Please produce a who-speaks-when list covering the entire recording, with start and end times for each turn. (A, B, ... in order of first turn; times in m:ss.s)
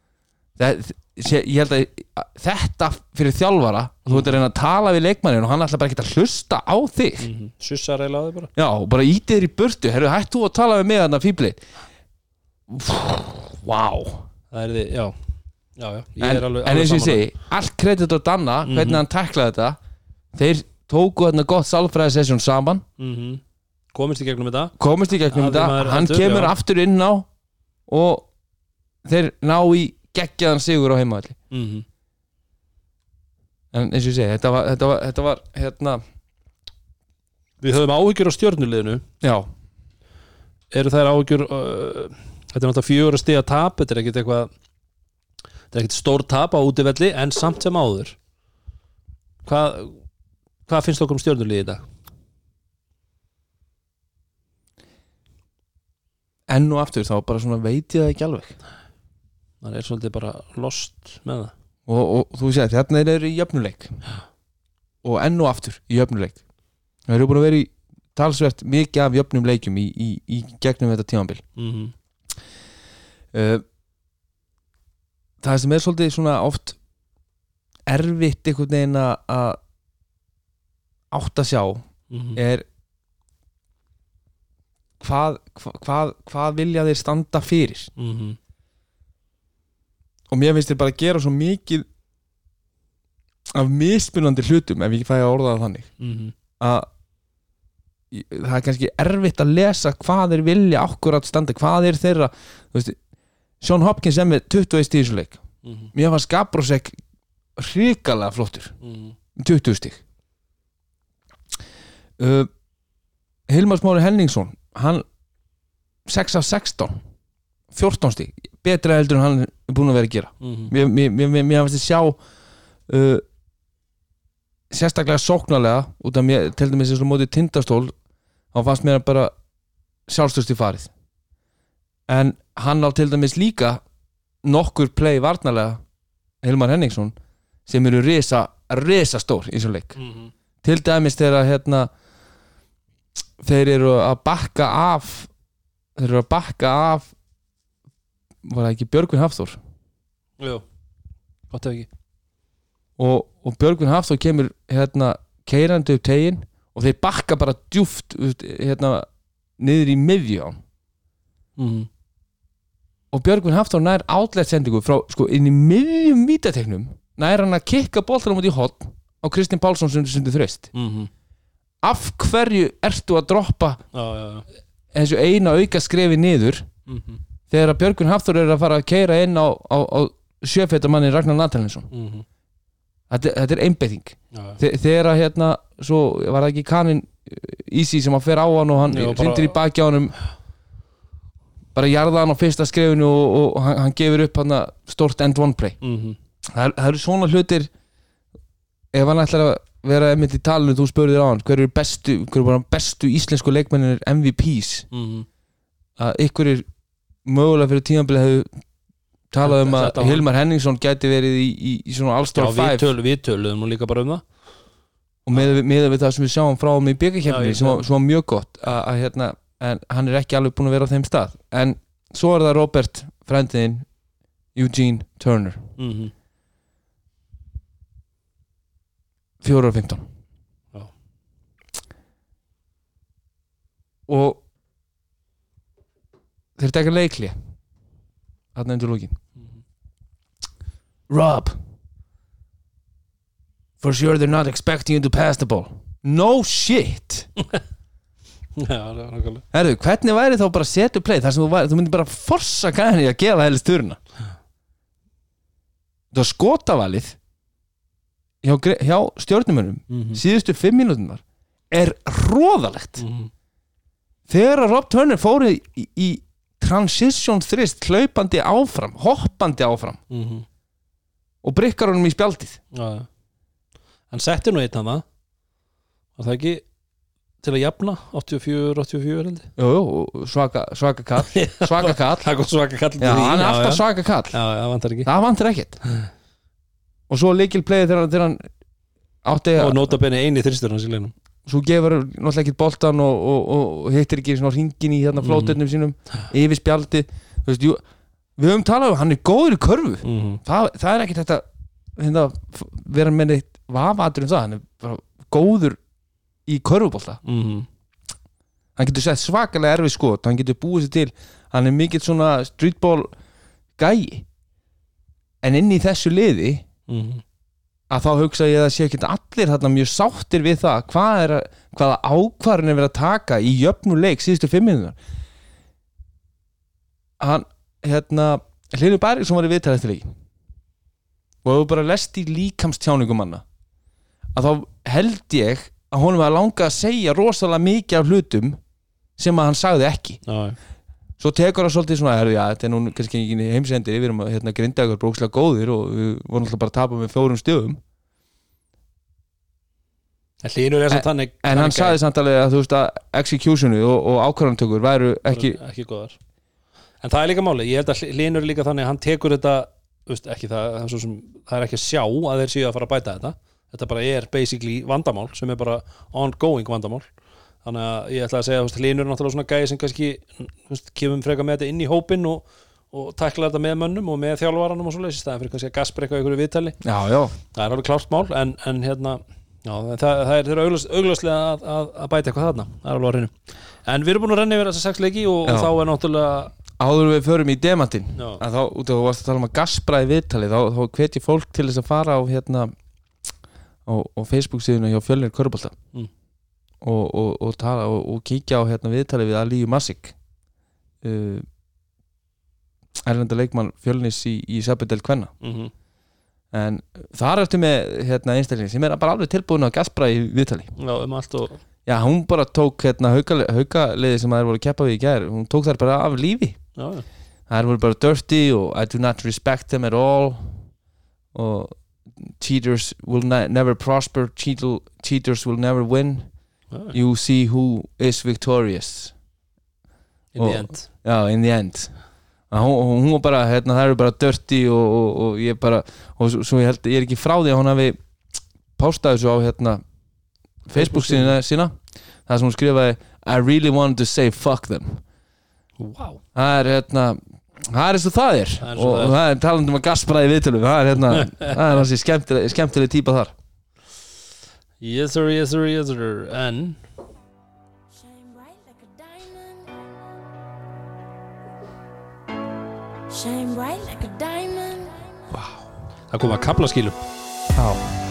0:00.6-0:07.3 A
0:04.1-0:04.3 B
0:07.2-0:08.5 B
0:08.6-0:11.6 A
0:12.7-0:14.2 A
0:14.5-0:15.2 B
0:15.8-0:17.3 B
0:16.2-0:19.8 A
0:18.6-0:19.0 B
0:20.3-0:22.8 A
0:23.0-0:23.4 B
0:23.9-0:24.7 B
0:24.8-0:27.3 A
0:25.3-0:26.5 B
0:27.9-0:28.3 A
0:29.0-0:31.4 A
0:31.5-0:31.9 B
0:33.7-0:36.0 A
0:37.6-0:39.0 B
0:39.2-0:39.5 A
0:40.7-0:44.5 B
0:45.7-0:48.2 B
0:49.4-0:50.0 B
0:50.7-0:51.8 B
0:56.5-0:58.5 A
0:59.6-1:01.5 B
1:01.9-1:04.0 A
1:05.0-1:06.4 A
1:07.1-1:11.4 A
1:11.6-1:11.9 B
1:13.3-1:13.6 A
1:15.4-1:16.8 A
1:17.9-1:19.6 A
1:21.1-1:22.7 A
1:22.1-1:22.4 B
1:25.0-1:27.9 A
1:28.0-1:28.4 B
1:30.3-1:31.9 A
1:33.5-1:35.9 A
1:36.0-1:36.3 B
1:36.6-1:36.9 A
1:38.1-1:43.0 A
1:43.6-1:45.4 A
1:45.6-1:45.9 B
1:45.9-1:47.0 A
1:47.6-1:48.8 A
1:48.8-1:49.2 B
1:49.4-1:50.0 A
1:52.2-1:52.5 A
1:53.5-1:55.0 A
1:56.1-1:57.0 A
1:57.7-2:02.2 A
2:00.4-2:00.7 B
2:02.9-2:03.2 A
2:04.7-2:08.0 A
2:08.5-2:09.3 A
2:10.1-2:10.9 A
2:12.1-2:13.8 A
2:14.4-2:15.8 A
2:16.4-2:17.2 A
2:17.7-2:20.0 A
2:20.0-2:20.3 B
2:20.6-2:21.9 A
2:23.4-2:25.3 A
2:26.0-2:27.1 A
2:28.4-2:29.6 A
2:30.4-2:30.6 B
2:31.5-2:31.9 B
2:33.0-2:39.1 A
2:39.6-2:40.6 A
2:41.6-2:41.9 B
2:43.1-2:50.7 A
2:50.8-2:51.1 B
2:51.8-2:53.8 A
2:53.9-2:54.5 B
2:54.9-2:56.7 A
2:56.9-2:57.2 B
2:57.5-3:01.9 A
3:01.9-3:02.2 B
3:03.1-3:10.1 A
3:04.3-3:04.6 B
3:08.9-3:09.6 B
3:11.8-3:15.8 A
3:15.8-3:16.2 B
3:16.5-3:17.7 A
3:18.9-3:24.9 A
3:24.9-3:25.3 B
3:26.0-3:26.6 A
3:27.2-3:28.5 A
3:29.3-3:32.9 A
3:29.4-3:30.2 B
3:32.3-3:34.2 B
3:35.3-3:43.9 A
3:37.3-3:37.8 B
3:44.6-3:45.6 A
3:45.8-3:46.1 B
3:49.4-3:50.1 A
3:54.1-3:54.4 A
3:56.6-3:57.4 A
3:58.6-3:59.2 A
4:01.1-4:01.6 A
4:03.8-4:07.3 A
4:08.6-4:09.4 B
4:09.5-4:14.0 A
4:16.1-4:17.2 A
4:18.4-4:23.0 A
4:19.9-4:20.2 B
4:23.0-4:23.3 B
4:24.3-4:30.0 A
4:30.1-4:30.4 B
4:31.4-4:32.6 A
4:32.7-4:33.1 B
4:34.1-4:35.0 B
4:36.2-4:36.6 B
4:37.4-4:39.5 B
4:39.6-4:42.3 A
4:41.2-4:45.1 B
4:43.0-4:44.4 A
4:45.0-4:45.8 A
4:47.1-4:48.5 A
4:49.2-4:49.8 A
4:49.6-4:51.1 B
4:51.5-4:57.8 A
4:55.2-4:55.6 B
4:58.4-5:01.4 A
5:00.0-5:00.4 B
5:02.0-5:05.8 A
5:06.5-5:07.2 A
5:07.2-5:07.7 B
5:08.8-5:13.1 A
5:13.8-5:14.2 A
5:15.4-5:16.6 A
5:16.9-5:17.2 B
5:17.9-5:25.0 A
5:27.2-5:30.1 A
5:31.4-5:33.4 A
5:34.3-5:38.6 A
5:39.2-5:40.2 A
5:40.3-5:40.6 B
5:41.2-5:47.8 A
5:50.4-5:52.0 B
5:50.9-5:55.6 A
5:55.3-5:56.2 B
5:57.0-6:07.1 B
6:07.6-6:16.8 B
6:16.8-6:17.4 A
6:17.5-6:23.3 B
6:23.8-6:26.5 B
6:25.4-6:25.7 A
6:26.8-6:32.7 A
6:28.2-6:28.4 B
6:33.9-6:35.8 A
6:36.8-6:40.1 A
6:41.0-6:41.5 A
6:43.0-6:45.3 A
6:45.4-6:45.7 B
6:46.5-6:50.7 A
6:50.8-6:51.6 B
6:51.9-6:56.6 A
6:56.8-6:57.0 B
6:57.5-7:00.7 A
7:01.3-7:06.3 A
7:06.9-7:09.2 A
7:10.3-7:10.8 B
7:10.4-7:11.9 A
7:12.5-7:18.0 A
7:18.8-7:19.8 A
7:20.7-7:25.0 A
7:20.7-7:21.4 B
7:25.8-7:26.2 B
7:26.4-7:33.3 A
7:28.6-7:29.2 B
7:31.2-7:31.5 B
7:34.8-7:36.8 B
7:38.0-7:39.8 C
7:43.1-7:45.1 C
7:45.3-7:45.7 A
7:46.1-7:47.0 B
7:47.6-7:47.8 A